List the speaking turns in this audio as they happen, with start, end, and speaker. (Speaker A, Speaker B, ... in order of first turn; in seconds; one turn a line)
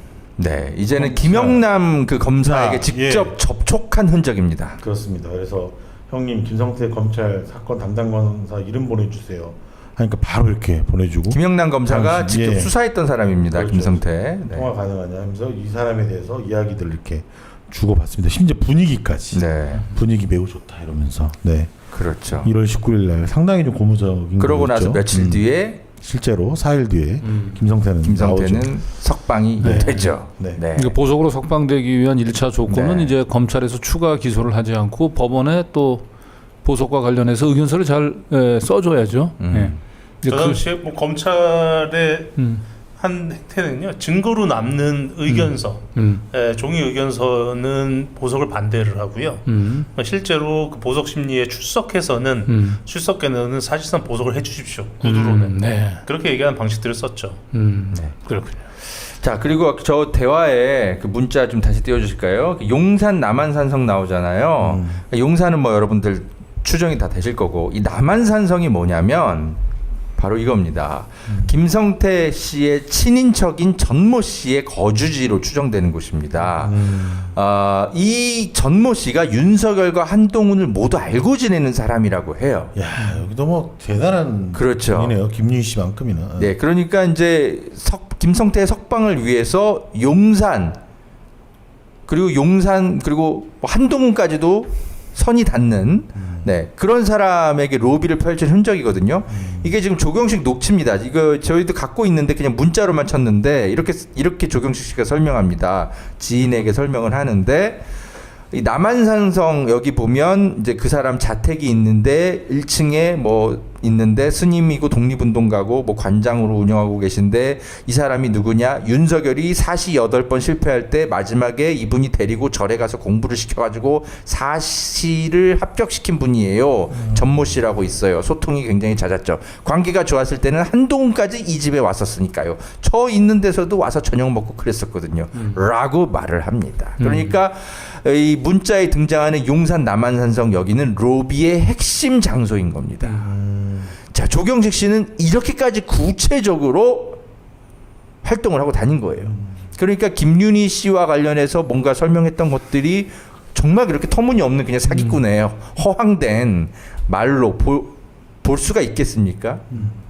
Speaker A: 0.4-4.8
Speaker B: 0.9-1.6
Speaker B: 2.4-3.4
Speaker B: 4.8-12.8
Speaker A: 11.3-14.7
Speaker B: 13.4-28.8
Speaker A: 19.3-19.8
Speaker A: 21.9-22.5
Speaker A: 24.4-25.8
Speaker C: 27.2-27.6
Speaker A: 28.0-31.0
Speaker B: 29.6-30.6
Speaker C: 29.6-36.1
Speaker A: 32.7-33.2
Speaker C: 36.6-40.6
Speaker A: 39.4-39.8
Speaker D: 40.3-57.5
Speaker C: 42.4-42.6
Speaker C: 45.3-46.2
Speaker C: 49.5-49.9
Speaker C: 52.5-52.8
Speaker C: 55.0-56.0
Speaker C: 57.5-58.6
Speaker A: 57.9-69.6
Speaker B: 64.6-65.0
Speaker A: 70.2-82.7
Speaker B: 71.3-71.5
Speaker B: 76.4-77.3
Speaker B: 82.7-86.5
Speaker A: 84.5-85.2
Speaker A: 86.4-90.8
Speaker A: 92.1-107.8
Speaker B: 96.1-96.5
Speaker B: 99.3-99.7
Speaker A: 108.5-143.2
Speaker B: 126.9-127.6
Speaker C: 137.0-137.4
Speaker C: 143.0-143.3
Speaker B: 143.2-143.9
Speaker A: 144.1-147.2
Speaker A: 148.2-159.7
Speaker B: 149.2-149.6